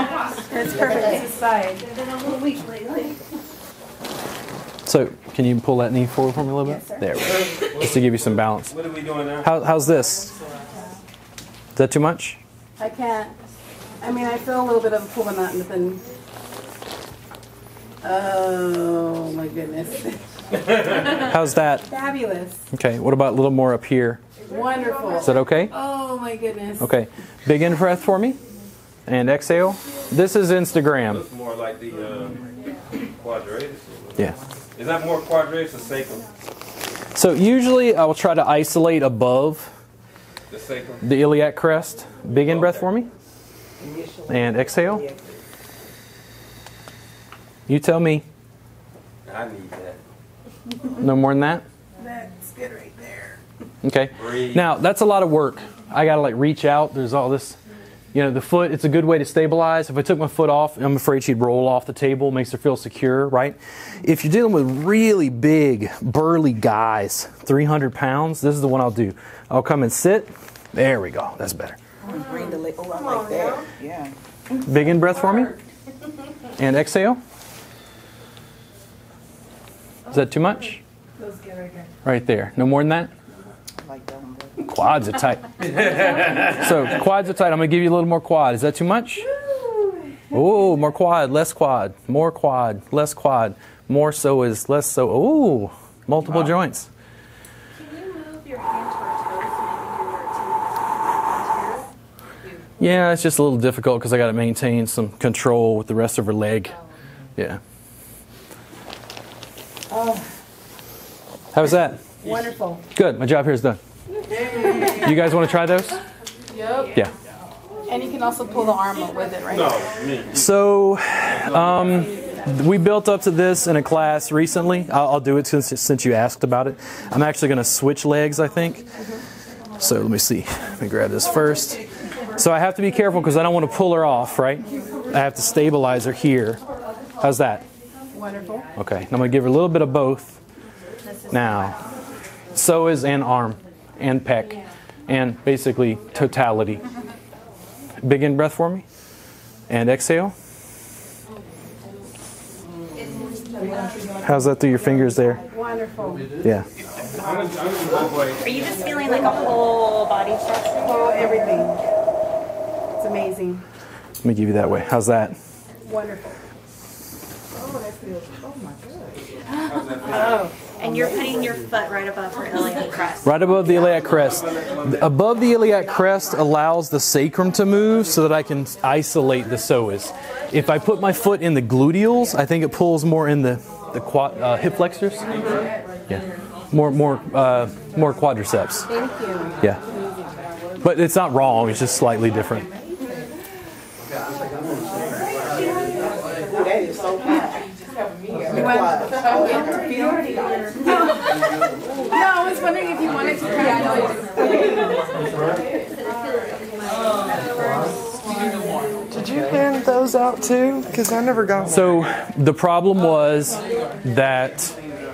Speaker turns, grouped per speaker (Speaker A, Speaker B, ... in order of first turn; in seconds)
Speaker A: 0.5-1.8, 12.8-13.3, 14.0-16.0, 18.0-20.2, 21.8-22.6, 24.5-26.9, 52.0-53.4, 81.2-81.9, 89.5-89.9, 109.9-110.2, 112.2-112.8, 114.4-115.0, 116.5-116.9, 117.9-119.8, 138.1-138.7, 155.5-156.3, 160.8-161.8, 163.0-163.6, 165.8-166.3, 170.1-170.5, 188.9-189.6, 198.5-200.2, 200.8-201.2, 202.1-204.8
Speaker B: 4.8-8.7, 9.4-10.3, 11.8-12.4, 21.2-21.8, 22.7-24.2, 25.2-25.7, 26.8-28.4, 29.1-31.2, 37.1-39.7, 41.0-43.1, 44.3-45.0, 47.7-48.2, 51.0-51.6, 53.8-57.6, 58.1-71.8, 74.6-75.5, 76.6-77.2, 80.1-80.8, 82.0-83.1, 84.6-85.5, 86.4-89.3, 90.3-96.9, 102.8-106.8, 111.5-112.0, 112.9-113.8, 114.9-116.0, 120.3-128.8, 129.8-131.8, 132.3-136.6, 137.2-137.6, 138.8-140.4, 141.3-141.8, 142.5-146.8, 148.0-148.8, 149.7-150.3, 154.2-155.4, 164.2-165.3, 173.2-185.3, 186.1-188.9, 190.8-192.7, 211.7-214.8
Speaker C: 7.4-9.5, 31.1-32.4, 33.0-36.2, 40.5-41.1, 42.4-42.9, 49.2-50.0, 54.2-54.7, 85.7-86.5, 96.2-96.5, 119.5-120.5, 121.3-121.8, 157.1-158.8, 169.6-170.4, 174.6-175.0, 205.2-205.6
Speaker D: 43.8-45.3, 72.0-74.1, 83.8-84.6, 196.5-197.5, 198.5-199.7
Speaker E: 100.0-100.5, 101.4-101.7, 158.4-161.0, 170.8-173.3
Speaker F: 209.1-211.8